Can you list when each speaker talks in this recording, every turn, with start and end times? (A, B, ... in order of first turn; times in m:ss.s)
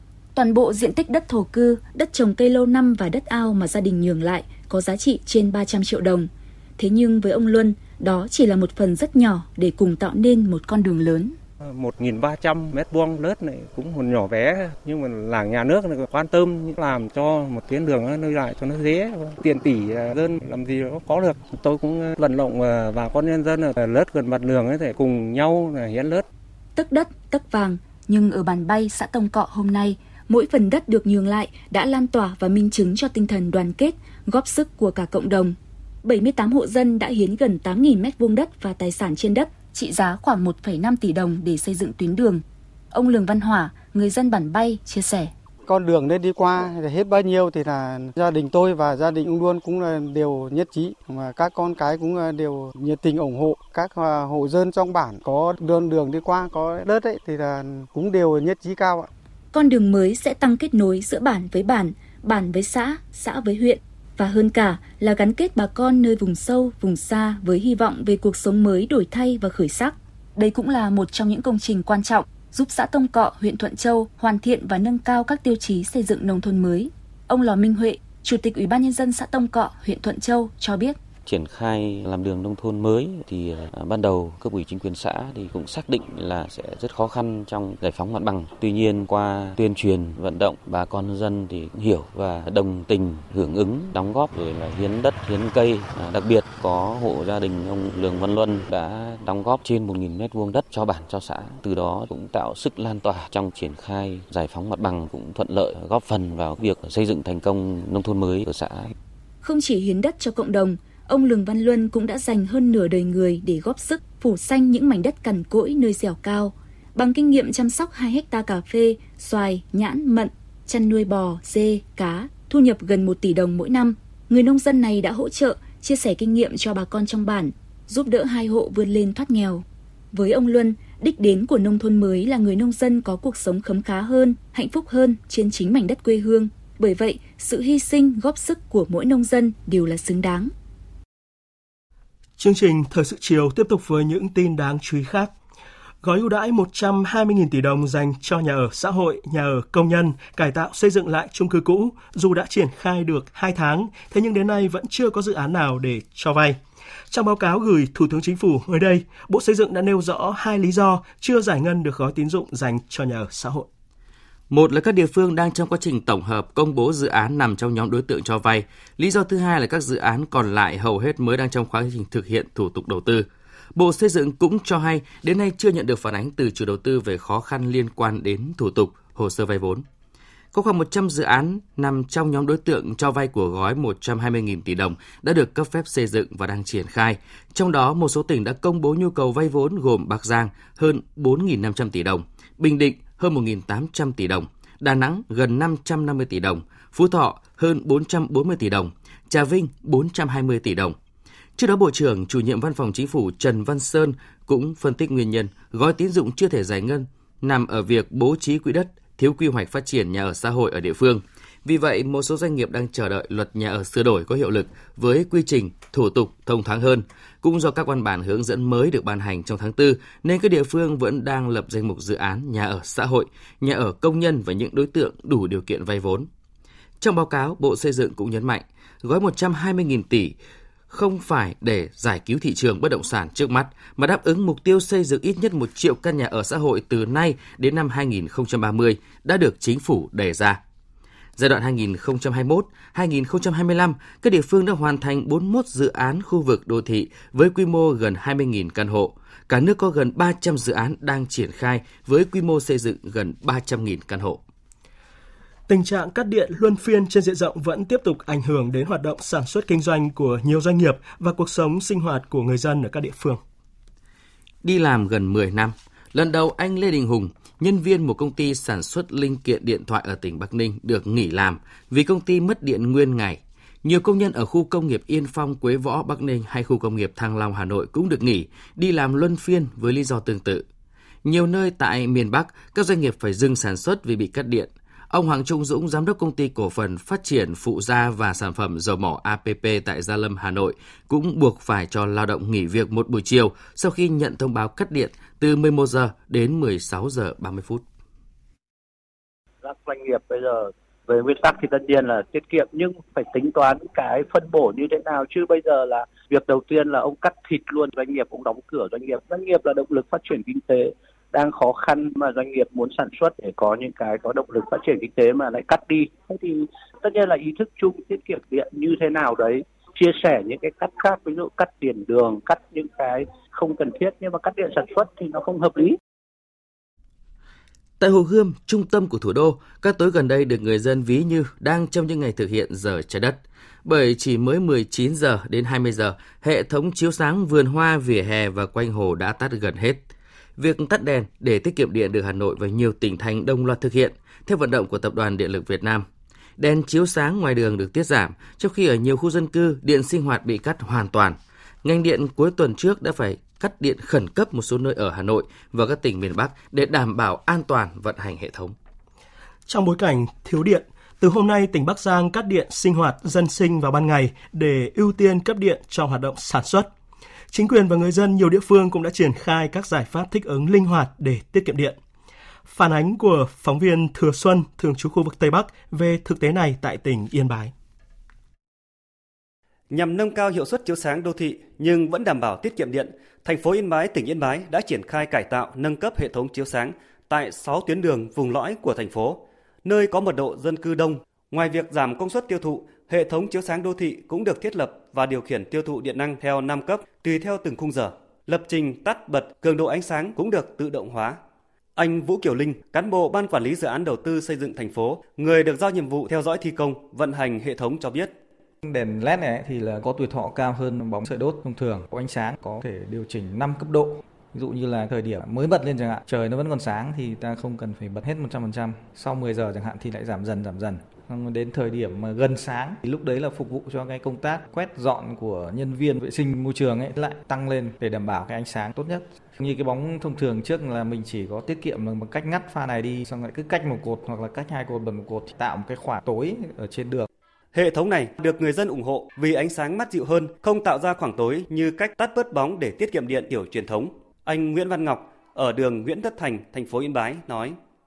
0:00.4-0:11.4 A
0:11.6-0:26.2 B
0:26.8-0:45.3 A
0:45.7-0:59.1 C
0:59.5-1:21.0 A
1:21.3-1:48.9 D
1:49.4-2:20.5 A
2:22.4-2:25.3 E
2:26.0-2:36.6 E
2:37.1-2:43.7 E
2:44.5-2:59.8 F
3:00.5-3:21.0 F
3:21.6-3:46.3 F
3:47.0-3:50.4 F
3:50.9-4:00.6 F
4:01.4-4:14.4 F
4:15.7-4:23.4 E
4:24.6-4:40.7 F
4:41.2-4:57.8 F
4:59.6-5:26.0 G
5:28.0-5:40.0 F
5:40.6-5:46.1 F
5:46.6-5:58.8 F
5:59.7-6:06.9 E
6:07.5-6:12.0 E
6:12.7-6:17.7 E
6:19.9-6:41.4 H
6:42.0-6:48.3 H
6:53.1-6:53.8 I
7:00.5-7:00.8 I
7:01.3-7:01.6 I
7:03.6-7:04.0 I
7:07.2-7:07.5 I
7:09.6-7:10.0 I
7:11.3-7:11.8 I
7:12.3-7:14.6 I
7:15.1-7:16.0 I
7:16.6-7:17.2 I
7:17.8-7:27.8 H